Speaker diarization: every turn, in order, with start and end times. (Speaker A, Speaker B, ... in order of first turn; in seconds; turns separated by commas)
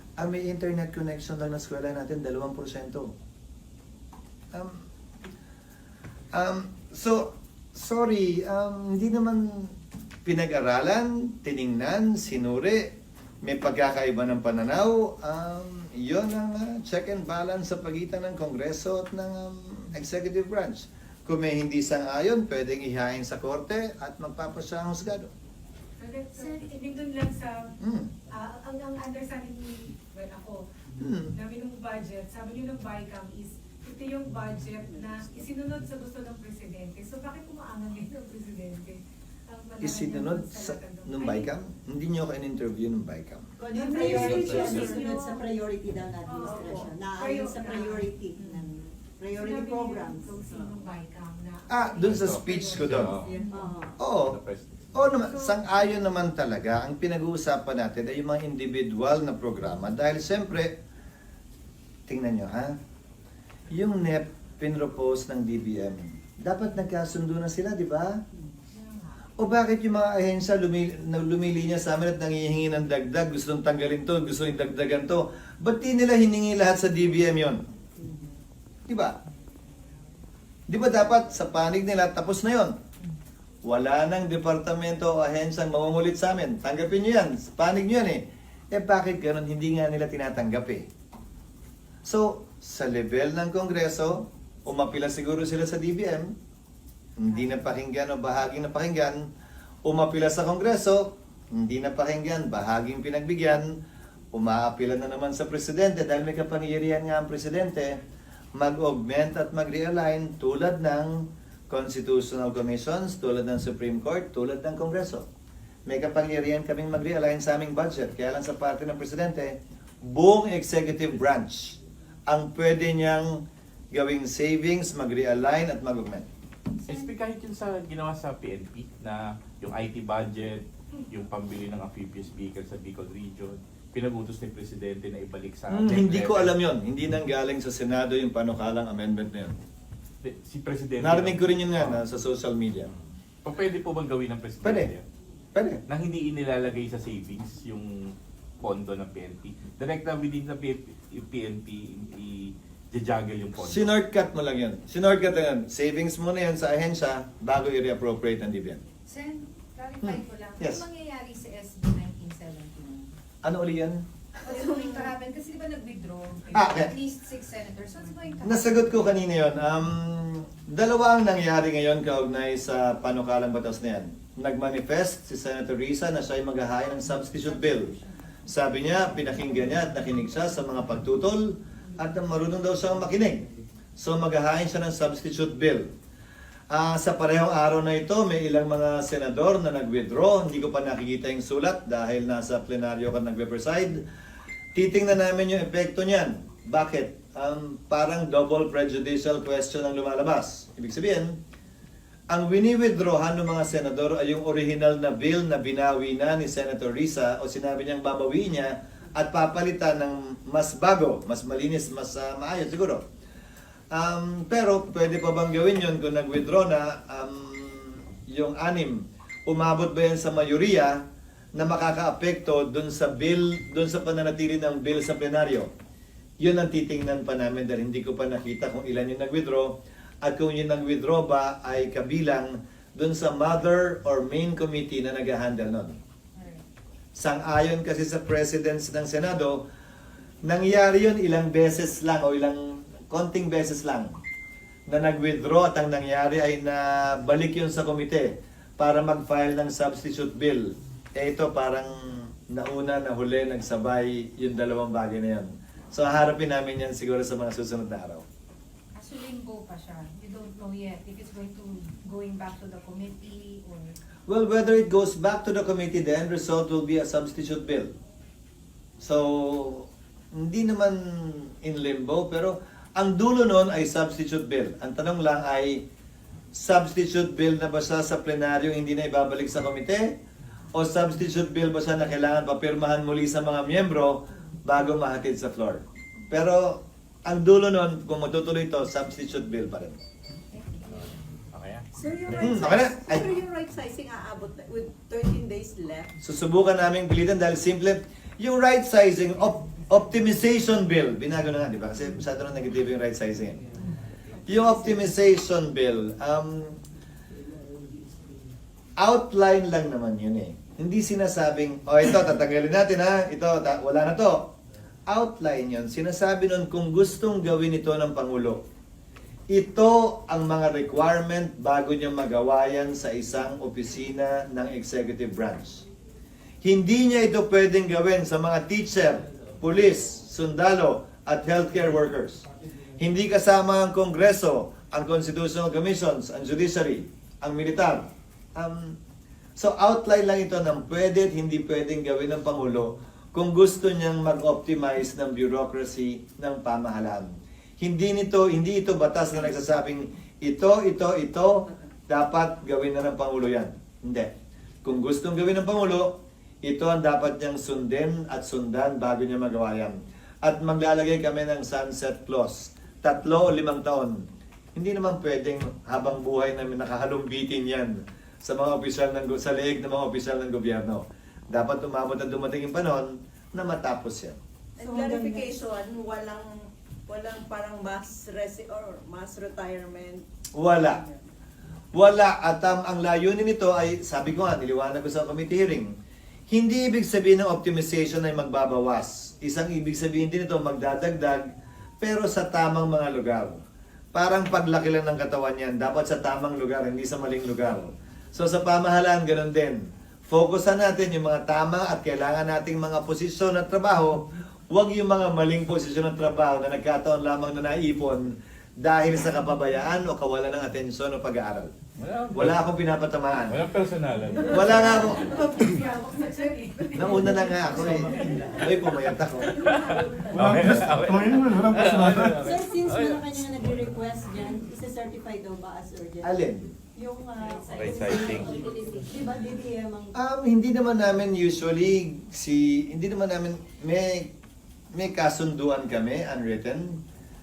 Speaker A: 0.2-3.1, Speaker A: 4.5-4.8, Speaker A: 6.3-9.7, Speaker A: 10.2-25.3, Speaker B: 26.0-27.8, Speaker A: 27.8-28.1, Speaker B: 28.3-30.7, Speaker A: 31.0-31.3, Speaker B: 31.3-41.5, Speaker A: 39.8-43.5, Speaker C: 43.6-50.4, Speaker B: 43.7-45.5, Speaker A: 44.0-44.9, Speaker D: 44.2-44.8, Speaker B: 46.3-48.7, Speaker B: 49.3-53.6, Speaker A: 51.7-53.1, Speaker D: 52.0-53.5, Speaker C: 53.3-54.0, Speaker A: 54.0-54.4, Speaker D: 54.2-55.0, Speaker A: 54.9-60.8, Speaker B: 55.2-55.6, Speaker A: 62.1-62.8, Speaker A: 63.7-68.2, Speaker A: 69.4-77.7, Speaker C: 78.0-78.3, Speaker A: 78.9-79.2, Speaker A: 80.7-82.8, Speaker A: 83.7-90.9, Speaker A: 92.0-96.3, Speaker A: 97.2-99.3, Speaker A: 99.8-103.8, Speaker A: 104.3-108.0, Speaker A: 108.5-115.3, Speaker A: 115.9-126.3, Speaker D: 126.9-136.5, Speaker A: 135.7-139.6, Speaker D: 140.2-142.0, Speaker A: 141.0-142.9, Speaker D: 143.4-145.0, Speaker A: 144.6-144.9, Speaker A: 145.6-145.8, Speaker D: 145.9-153.9, Speaker A: 153.6-158.8, Speaker E: 159.1-163.1, Speaker A: 160.0-160.8, Speaker A: 163.4-164.6, Speaker E: 164.4-168.8, Speaker A: 166.5-166.9, Speaker A: 168.4-177.9, Speaker E: 177.7-178.0, Speaker A: 178.5-185.9, Speaker A: 186.7-194.1, Speaker A: 194.8-201.4, Speaker A: 202.3-213.1, Speaker A: 213.9-221.0, Speaker A: 221.6-225.7, Speaker A: 226.4-236.0, Speaker E: 236.3-236.6, Speaker A: 237.2-239.7, Speaker A: 240.4-244.2, Speaker A: 244.9-258.2, Speaker E: 258.9-263.9, Speaker A: 264.3-267.9, Speaker A: 269.0-275.8, Speaker A: 276.5-280.2, Speaker A: 280.7-290.0, Speaker E: 290.5-291.1, Speaker D: 290.9-291.9, Speaker F: 291.9-296.1, Speaker A: 292.4-293.3, Speaker A: 296.2-303.6, Speaker A: 304.5-306.8, Speaker A: 309.0-314.6, Speaker A: 315.1-318.6, Speaker A: 319.5-325.9, Speaker A: 326.6-332.5, Speaker A: 333.0-339.0, Speaker A: 339.6-354.3, Speaker A: 354.8-374.4, Speaker F: 374.8-380.2, Speaker C: 374.8-375.6, Speaker A: 380.6-381.0, Speaker F: 380.9-381.1, Speaker A: 381.9-385.9, Speaker A: 386.5-393.6, Speaker A: 394.1-411.8, Speaker D: 412.0-412.7, Speaker A: 412.3-413.6, Speaker D: 413.5-415.1, Speaker A: 414.5-415.5, Speaker B: 415.0-418.4, Speaker A: 416.9-419.7, Speaker D: 419.6-423.2, Speaker A: 420.5-420.9, Speaker C: 422.1-430.1, Speaker A: 426.2-426.7, Speaker D: 427.7-428.7, Speaker A: 430.1-434.3, Speaker A: 434.9-437.0